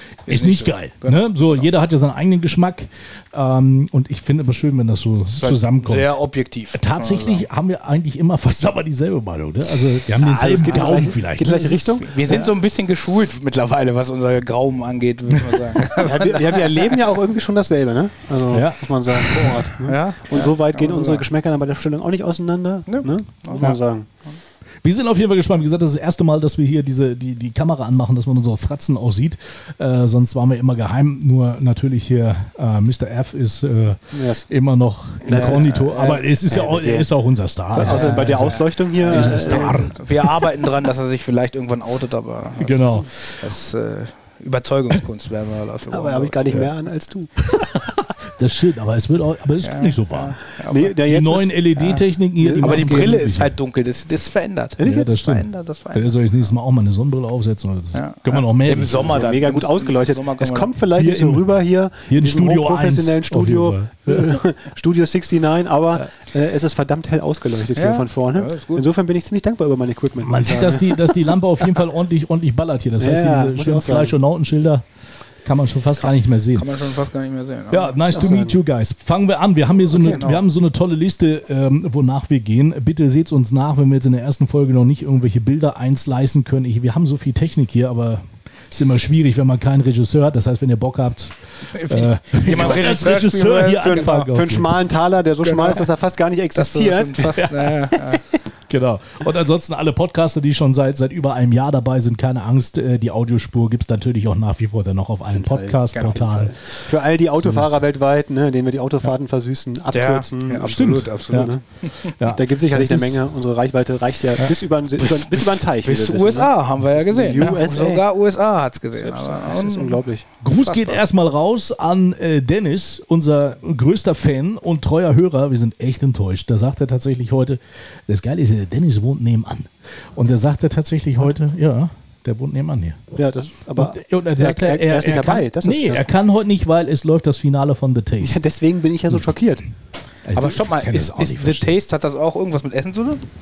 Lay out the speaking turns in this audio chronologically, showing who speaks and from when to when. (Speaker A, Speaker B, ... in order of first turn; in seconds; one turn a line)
Speaker A: 0.3-1.6
Speaker B: 0.3-6.1
Speaker A: 5.3-7.5
Speaker B: 6.7-11.6
Speaker C: 10.2-12.5
Speaker A: 10.6-17.0
Speaker C: 16.0-24.1
Speaker B: 18.5-19.6
Speaker A: 19.8-21.2
Speaker A: 22.9-23.7
Speaker B: 24.8-40.3
Speaker C: 34.1-34.5
Speaker C: 35.2-37.1
Speaker A: 35.2-36.2
Speaker C: 37.7-40.0
Speaker A: 37.8-46.6
Speaker B: 42.6-43.5
Speaker C: 45.9-47.9
Speaker B: 48.4-50.4
Speaker A: 49.6-50.9
Speaker C: 50.6-51.6
Speaker B: 51.0-53.6
Speaker A: 51.8-52.0
Speaker C: 52.4-53.2
Speaker A: 52.6-56.2
Speaker C: 54.8-55.3
Speaker B: 54.8-59.2
Speaker A: 57.9-60.7
Speaker C: 59.0-71.1
Speaker B: 60.9-64.4
Speaker A: 67.7-68.8
Speaker B: 70.2-74.8
Speaker C: 73.0-74.2
Speaker B: 75.4-76.8
Speaker A: 76.5-78.3
Speaker B: 77.7-94.8
Speaker C: 78.1-78.6
Speaker C: 79.9-80.3
Speaker A: 80.0-80.4
Speaker A: 91.7-94.2
Speaker C: 93.8-97.5
Speaker A: 95.4-95.9
Speaker A: 96.5-98.2
Speaker B: 97.4-98.0
Speaker B: 98.7-106.6
Speaker C: 105.3-111.6
Speaker A: 105.9-106.2
Speaker B: 107.4-107.8
Speaker A: 109.9-112.1
Speaker B: 110.6-111.5
Speaker B: 112.0-113.2
Speaker C: 112.3-118.0
Speaker B: 114.4-115.6
Speaker A: 115.8-121.0
Speaker C: 119.0-120.2
Speaker B: 120.4-133.0
Speaker C: 133.2-136.1
Speaker B: 133.8-138.4
Speaker C: 138.2-139.7
Speaker B: 140.2-141.7
Speaker A: 140.3-143.2